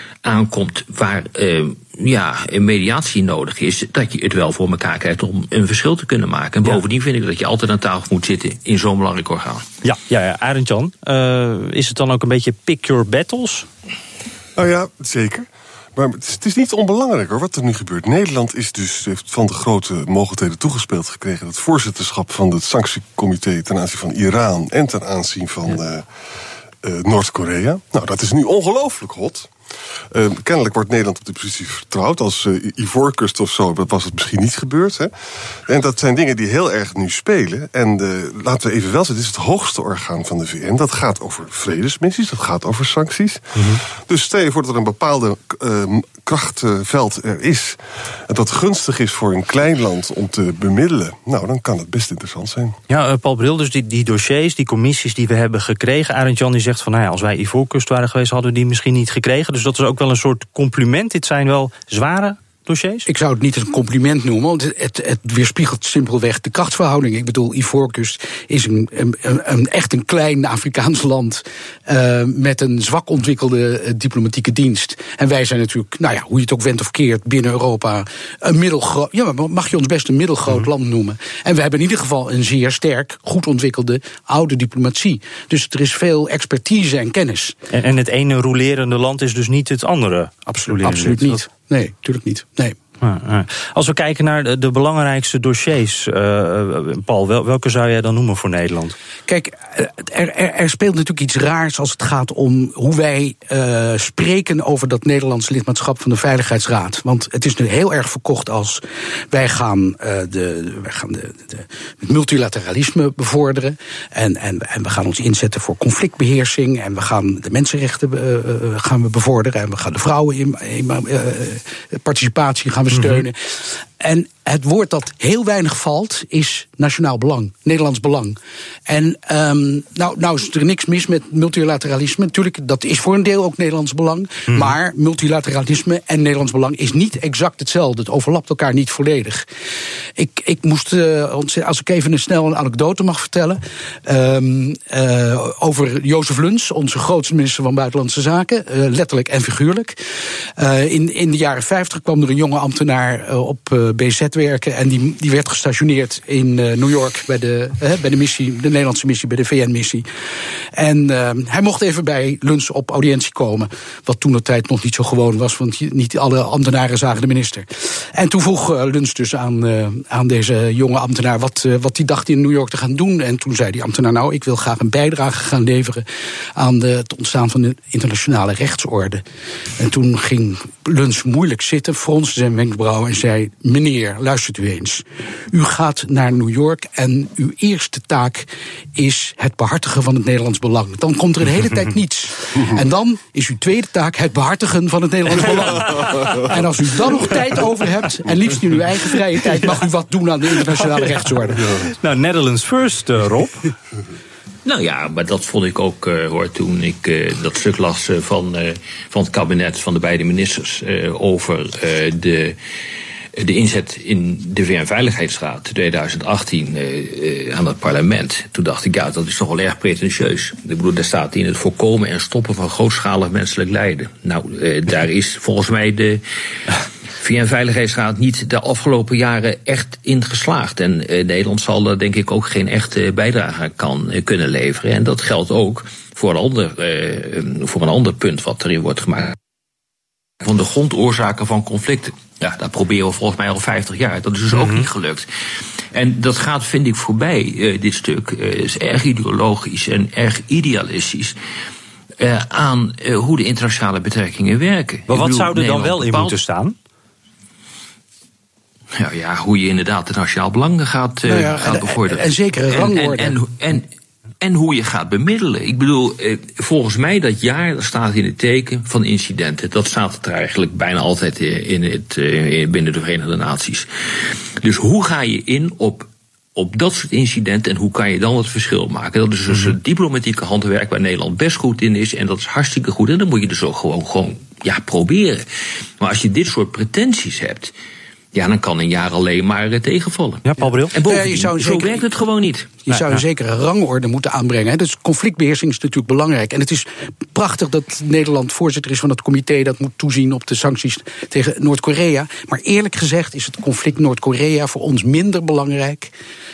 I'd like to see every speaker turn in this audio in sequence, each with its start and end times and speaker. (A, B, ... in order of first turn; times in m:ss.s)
0:00.2-0:09.6 A
0:09.8-0:13.7 B
0:14.6-0:26.0 C
0:26.8-0:29.5 C
0:30.1-0:35.1 C
0:35.6-0:52.8 C
0:43.6-0:43.8 B
0:52.9-1:03.1 B
1:03.1-1:27.5 D
1:27.7-1:31.4 B
1:30.5-1:32.8 D
1:33.0-1:39.0 B
1:39.3-2:19.4 D
2:02.9-2:03.2 B
2:14.5-2:14.7 B
2:20.2-2:30.0 D
2:30.6-2:40.1 D
2:40.7-2:56.0 D
2:56.6-2:59.2 D
2:59.8-3:21.8 D
3:16.0-3:16.4 B
3:21.8-3:23.6 B
3:24.6-3:32.6 A
3:33.4-3:46.2 A
3:47.2-3:59.4 A
4:00.4-4:05.2 A
4:04.5-4:04.8 B
4:05.9-4:11.4 A
4:12.2-4:16.4 A
4:15.1-4:16.7 B
4:18.9-4:23.9 A
4:21.3-4:23.4 D
4:24.4-4:45.4 A
4:46.0-4:47.7 A
4:48.3-4:52.8 A
4:50.4-4:50.9 B
4:50.9-4:52.1 D
4:52.8-5:06.1 D
4:52.9-4:53.2 B